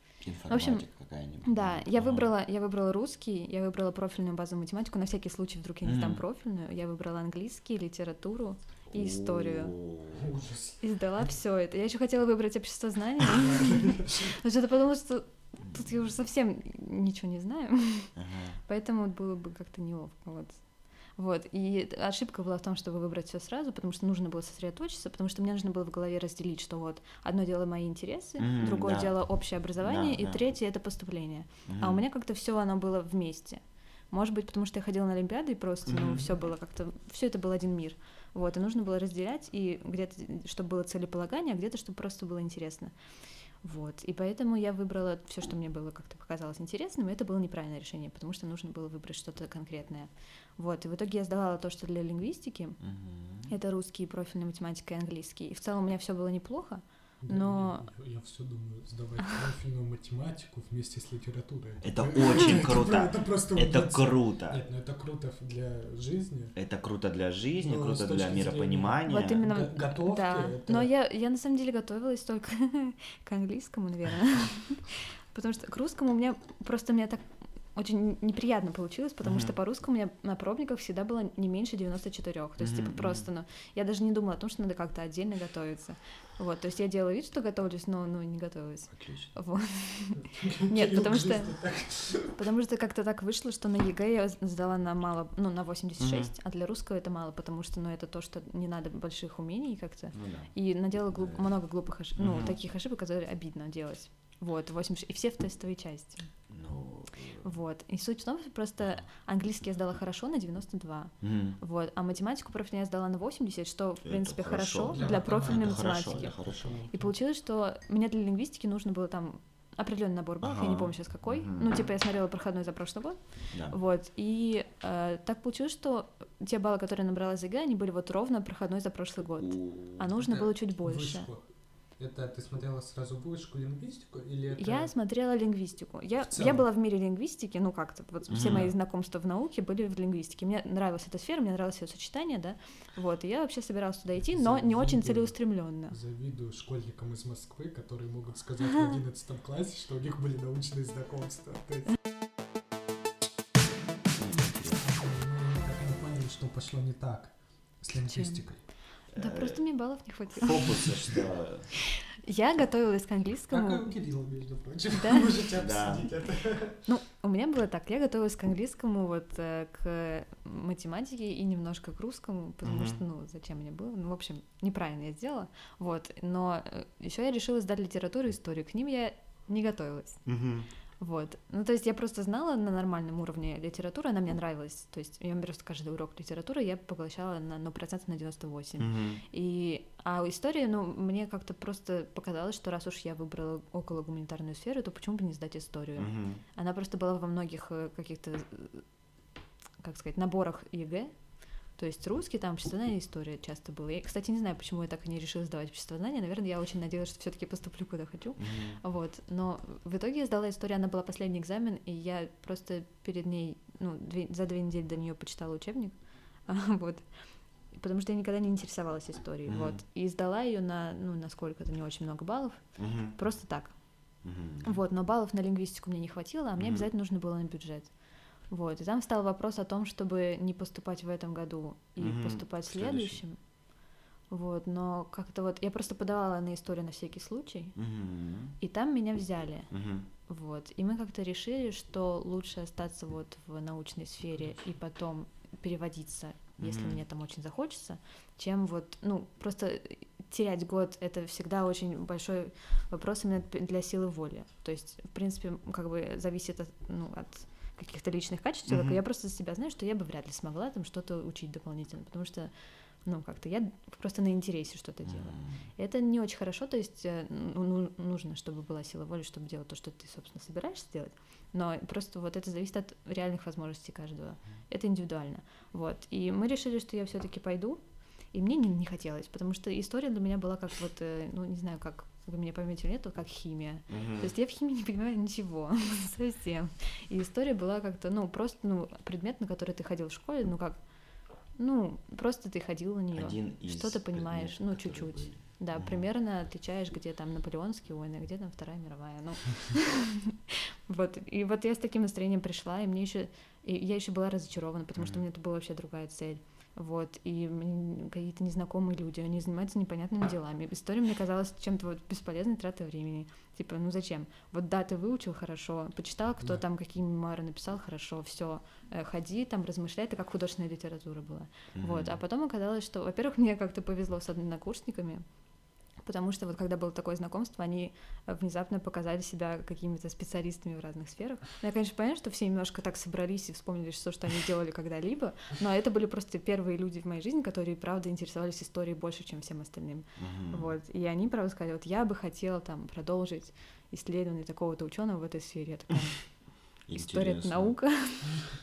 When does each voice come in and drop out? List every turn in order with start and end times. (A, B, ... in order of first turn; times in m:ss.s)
0:00.2-0:02.3 A
0:00.5-0:00.9 B
0:01.4-0:09.8 B
0:05.8-0:06.2 A
0:08.9-0:10.3 A
0:10.1-0:11.3 C
0:10.8-0:18.1 B
0:13.4-0:14.2 C
0:15.6-0:16.0 A
0:18.2-0:18.6 A
0:18.7-0:42.9 B
0:28.4-0:30.4 A
0:31.7-0:32.0 A
0:35.9-0:36.3 A
0:43.6-0:52.8 B
0:52.8-0:53.5 A
0:53.5-0:57.9 B
0:57.2-1:06.6 C
1:01.8-1:04.6 A
1:06.6-1:09.4 A
1:07.6-1:10.9 C
1:09.1-1:31.6 B
1:19.2-1:19.5 A
1:22.6-1:23.3 A
1:28.9-1:29.3 A
1:30.2-1:32.4 C
1:32.4-1:46.3 B
1:36.0-1:36.3 A
1:40.1-1:40.6 A
1:41.1-1:41.6 A
1:42.2-1:42.6 A
1:46.5-1:47.5 A
1:47.4-2:11.3 B
1:51.2-1:51.6 A
1:54.0-1:56.7 A
1:54.9-1:57.2 C
2:00.4-2:01.9 A
2:03.5-2:03.8 A
2:09.4-2:10.1 A
2:10.2-2:14.9 C
2:14.6-2:26.0 B
2:16.2-2:16.7 C
2:18.3-2:18.7 A
2:24.3-2:31.9 C
2:34.2-2:34.8 A
2:34.7-2:38.7 C
2:38.0-2:40.9 B
2:39.1-2:41.8 A
2:42.1-2:43.9 B
2:43.5-2:46.8 C
2:45.0-2:45.3 B
2:45.6-2:46.1 A
2:46.8-3:00.3 B
2:52.6-2:53.0 A
3:00.3-3:00.7 A
3:01.0-3:18.8 B
3:08.8-3:09.2 A
3:16.0-3:16.4 A
3:19.8-3:37.1 B
3:28.4-3:28.8 A
3:37.6-3:53.4 B
3:39.5-3:39.8 A
3:42.8-3:43.2 A
3:44.2-3:44.8 A
3:46.6-3:46.9 A
3:52.0-3:53.2 A
3:54.3-3:57.8 B
3:57.8-3:58.6 A
3:58.6-4:22.5 B
3:59.7-4:00.1 A
4:06.6-4:07.0 A
4:18.7-4:19.0 A
4:23.0-4:37.8 B
4:25.0-4:25.7 A
4:38.3-4:50.9 B
4:43.9-4:44.3 A
4:51.5-5:25.2 B
4:53.2-4:56.1 A
5:05.0-5:05.2 A
5:21.8-5:22.2 A
5:26.0-5:48.4 B
5:40.2-5:40.7 A
5:46.8-5:47.9 A